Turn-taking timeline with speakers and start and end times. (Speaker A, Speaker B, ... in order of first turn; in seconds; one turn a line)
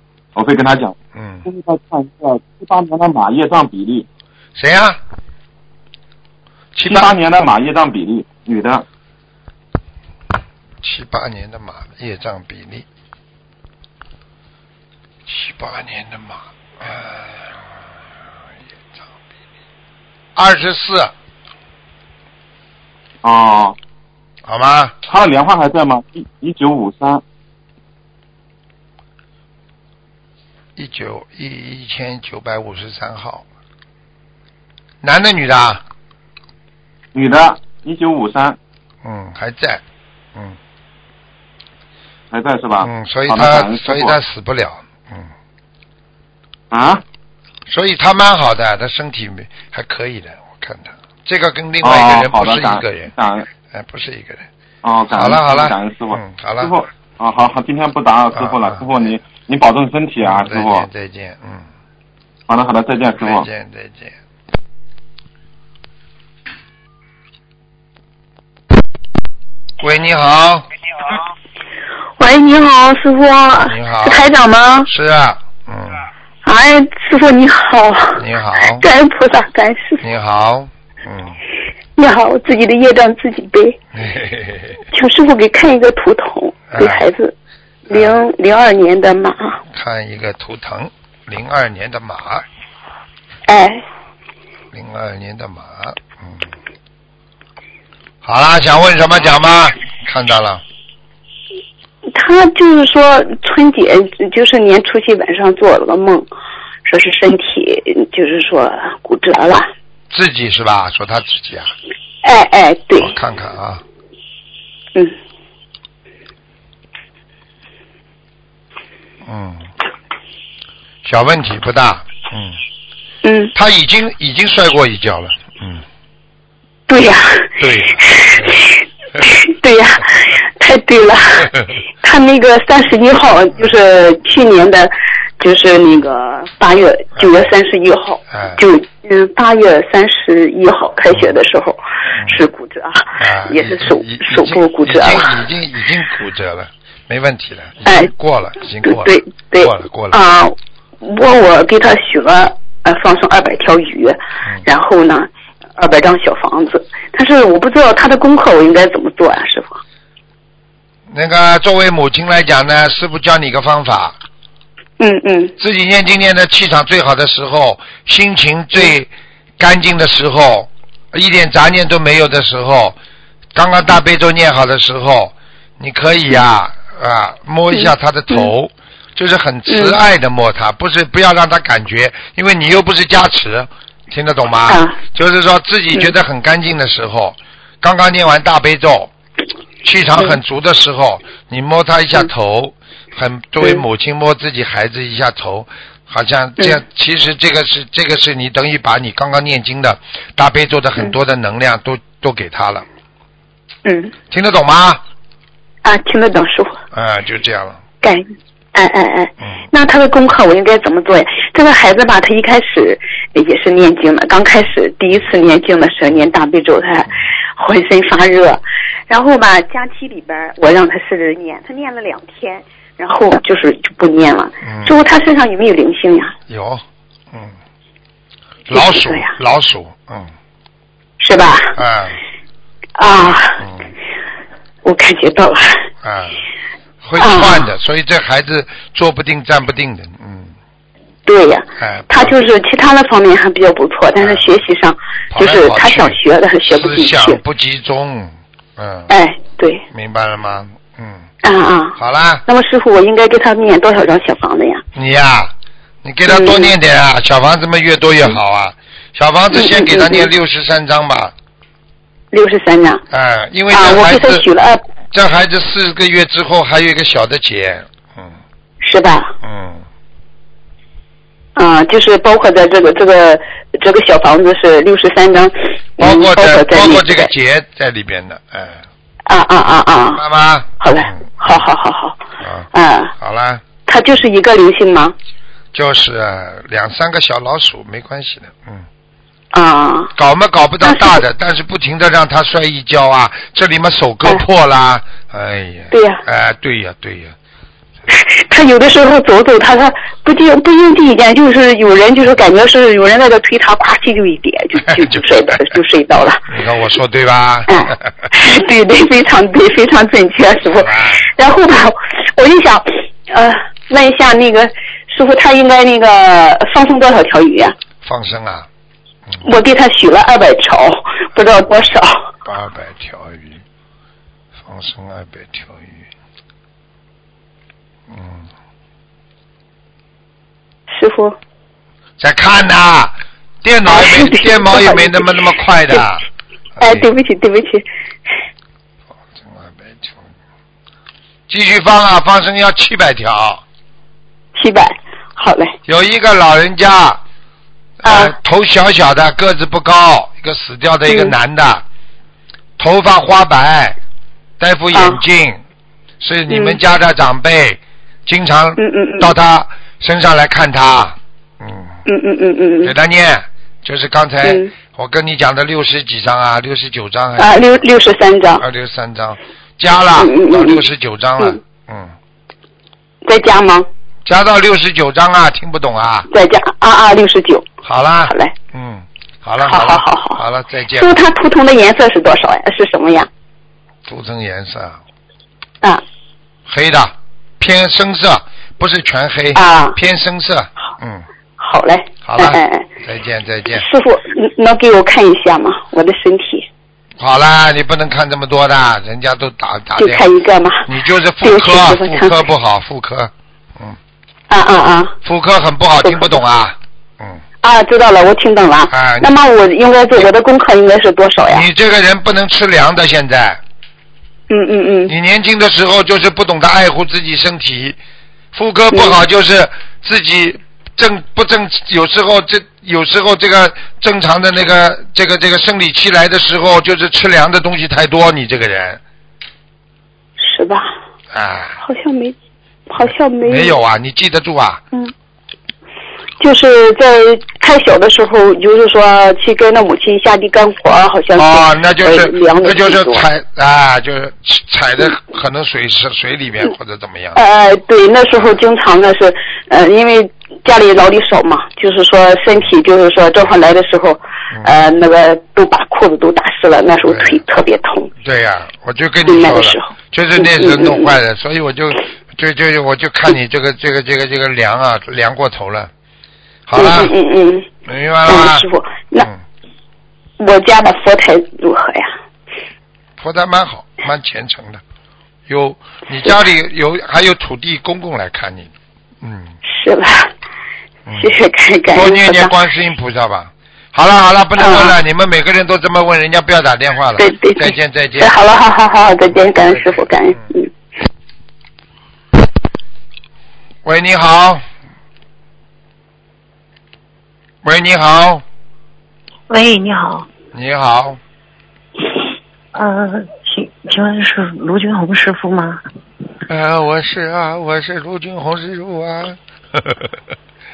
Speaker A: 0.3-0.9
Speaker B: 1.1-1.4
Speaker A: 1.4-4.0
Speaker B: 4.5-5.0
Speaker B: 6.7-7.1
Speaker A: 6.9-8.8
Speaker B: 10.8-12.8
Speaker B: 15.2-17.8
Speaker B: 20.4-21.1
Speaker A: 23.2-23.8
Speaker B: 24.4-24.9
Speaker A: 25.1-27.2
Speaker B: 30.8-33.4
Speaker B: 35.0-35.8
Speaker A: 37.1-38.6
Speaker B: 39.0-39.8
Speaker A: 42.3-44.1
Speaker B: 42.8-45.3
Speaker A: 46.7-47.0
Speaker B: 47.7-53.1
Speaker A: 51.8-53.5
Speaker B: 53.7-54.5
Speaker A: 54.8-60.9
Speaker B: 55.1-56.7
Speaker B: 58.3-58.9
Speaker B: 60.2-61.7
Speaker A: 62.5-63.5
Speaker B: 63.2-64.2
Speaker B: 69.8-70.7
Speaker C: 72.2-74.9
Speaker B: 73.5-74.3
Speaker B: 74.8-76.0
Speaker C: 76.4-78.2
Speaker B: 78.2-78.8
Speaker C: 78.7-80.0
Speaker B: 80.0-81.4
Speaker C: 82.0-83.8
Speaker B: 83.9-84.8
Speaker C: 84.9-87.3
Speaker B: 86.7-87.1
Speaker C: 87.9-89.6
Speaker B: 87.9-88.2
Speaker B: 89.7-92.5
Speaker C: 93.5-93.8
Speaker B: 94.7-96.5
Speaker B: 98.2-100.6
Speaker C: 102.1-106.3
Speaker C: 106.8-109.7
Speaker B: 110.1-111.7
Speaker C: 112.2-113.1
Speaker B: 113.0-113.8
Speaker B: 119.2-119.7
Speaker B: 121.0-122.6
Speaker C: 123.2-123.5
Speaker B: 123.5-125.8
Speaker C: 126.9-145.4
Speaker B: 127.6-128.7
Speaker B: 137.2-137.5
Speaker B: 138.3-138.6
Speaker B: 142.1-142.4
Speaker B: 143.2-150.2
Speaker C: 147.8-148.1
Speaker C: 148.8-159.8
Speaker B: 161.1-164.2
Speaker C: 165.0-165.5
Speaker B: 165.6-173.0
Speaker B: 173.5-189.1
Speaker C: 177.7-178.5
Speaker C: 179.7-179.9
Speaker C: 184.7-185.0
Speaker B: 189.8-202.8
Speaker C: 203.8-204.1
Speaker B: 204.3-205.0
Speaker C: 205.8-206.8
Speaker B: 206.9-207.8
Speaker C: 208.0-226.3
Speaker B: 224.6-224.9
Speaker B: 226.5-227.6
Speaker B: 228.7-230.3
Speaker C: 228.7-229.3
Speaker C: 231.2-231.8
Speaker B: 231.7-232.2
Speaker C: 233.0-233.6
Speaker B: 233.1-233.9
Speaker C: 234.8-235.8
Speaker B: 236.0-236.4
Speaker B: 237.0-240.5
Speaker C: 237.2-237.7
Speaker C: 241.2-247.4
Speaker B: 241.8-242.3
Speaker B: 244.2-244.6
Speaker B: 245.3-249.1
Speaker C: 249.1-249.8
Speaker B: 249.9-251.3
Speaker C: 251.4-254.8
Speaker B: 252.0-252.4
Speaker B: 254.9-261.3
Speaker C: 256.3-256.7
Speaker C: 259.5-260.3
Speaker C: 262.3-263.0
Speaker B: 263.1-264.5
Speaker C: 263.7-264.8
Speaker B: 265.1-268.4
Speaker C: 268.8-269.3
Speaker B: 269.4-269.8
Speaker C: 271.6-277.3
Speaker B: 276.0-278.8
Speaker C: 279.3-280.2
Speaker B: 280.1-281.6
Speaker C: 280.8-282.2
Speaker B: 282.4-283.6
Speaker C: 282.7-283.1
Speaker C: 283.9-285.1
Speaker B: 285.7-288.9
Speaker C: 289.5-290.1
Speaker B: 290.1-297.3
Speaker C: 290.8-291.2
Speaker C: 295.9-296.2
Speaker C: 298.1-306.5
Speaker B: 306.5-308.3
Speaker C: 307.7-317.7
Speaker B: 310.8-311.3
Speaker B: 318.0-318.7
Speaker C: 319.4-322.2
Speaker B: 322.4-323.6
Speaker B: 324.6-326.1
Speaker B: 328.1-328.5
Speaker C: 330.9-331.4
Speaker B: 332.2-336.2
Speaker C: 333.9-336.0
Speaker B: 336.8-337.1
Speaker C: 336.8-337.8
Speaker B: 339.3-340.3
Speaker B: 341.5-343.6
Speaker C: 344.6-345.7
Speaker B: 345.9-347.2
Speaker B: 348.0-351.8
Speaker C: 348.0-348.3
Speaker C: 351.1-351.4
Speaker B: 352.8-354.0
Speaker B: 354.6-355.6
Speaker C: 354.9-355.2
Speaker B: 356.2-362.0
Speaker C: 356.5-356.8
Speaker C: 358.8-359.3
Speaker C: 362.1-362.9
Speaker B: 362.8-367.7
Speaker C: 364.4-364.7
Speaker C: 367.4-368.6
Speaker B: 368.6-372.1
Speaker C: 370.2-370.8
Speaker C: 373.2-373.9
Speaker B: 374.2-376.3
Speaker C: 376.3-377.7
Speaker B: 377.8-381.2
Speaker C: 378.2-378.5
Speaker C: 379.6-380.4
Speaker C: 380.9-383.3
Speaker B: 384.1-385.0
Speaker B: 386.6-391.2
Speaker C: 389.5-390.0
Speaker C: 391.6-392.9
Speaker B: 392.2-393.8
Speaker C: 393.8-396.6
Speaker B: 397.2-400.3
Speaker C: 400.0-400.9
Speaker B: 400.8-404.0
Speaker C: 401.4-402.4
Speaker C: 404.5-405.1
Speaker B: 405.2-407.4
Speaker C: 406.0-406.3
Speaker C: 407.6-411.6
Speaker B: 408.9-409.3
Speaker B: 411.5-413.6
Speaker C: 414.5-415.1
Speaker B: 415.1-418.0
Speaker B: 418.5-429.0
Speaker C: 418.9-419.2
Speaker C: 430.4-430.9
Speaker B: 431.3-431.8
Speaker C: 431.8-432.3
Speaker C: 432.9-433.7
Speaker B: 433.0-434.8
Speaker C: 436.4-443.2
Speaker B: 441.3-447.4
Speaker C: 447.4-458.1
Speaker B: 448.3-448.6
Speaker B: 457.0-457.4
Speaker B: 458.2-465.9
Speaker C: 459.2-461.1
Speaker B: 466.7-467.1
Speaker C: 466.7-467.7
Speaker B: 467.9-468.7
Speaker C: 468.2-469.3
Speaker C: 470.4-472.1
Speaker B: 473.2-474.8
Speaker B: 475.5-478.7
Speaker B: 479.2-479.6
Speaker C: 479.6-480.3
Speaker B: 481.1-481.3
Speaker C: 481.2-482.5
Speaker B: 481.9-488.4
Speaker C: 484.6-484.9
Speaker C: 487.2-490.7
Speaker B: 489.4-490.4
Speaker B: 493.8-494.6
Speaker B: 497.6-498.4
Speaker D: 499.5-500.2
Speaker B: 500.5-501.2
Speaker D: 502.7-505.8
Speaker B: 506.5-510.1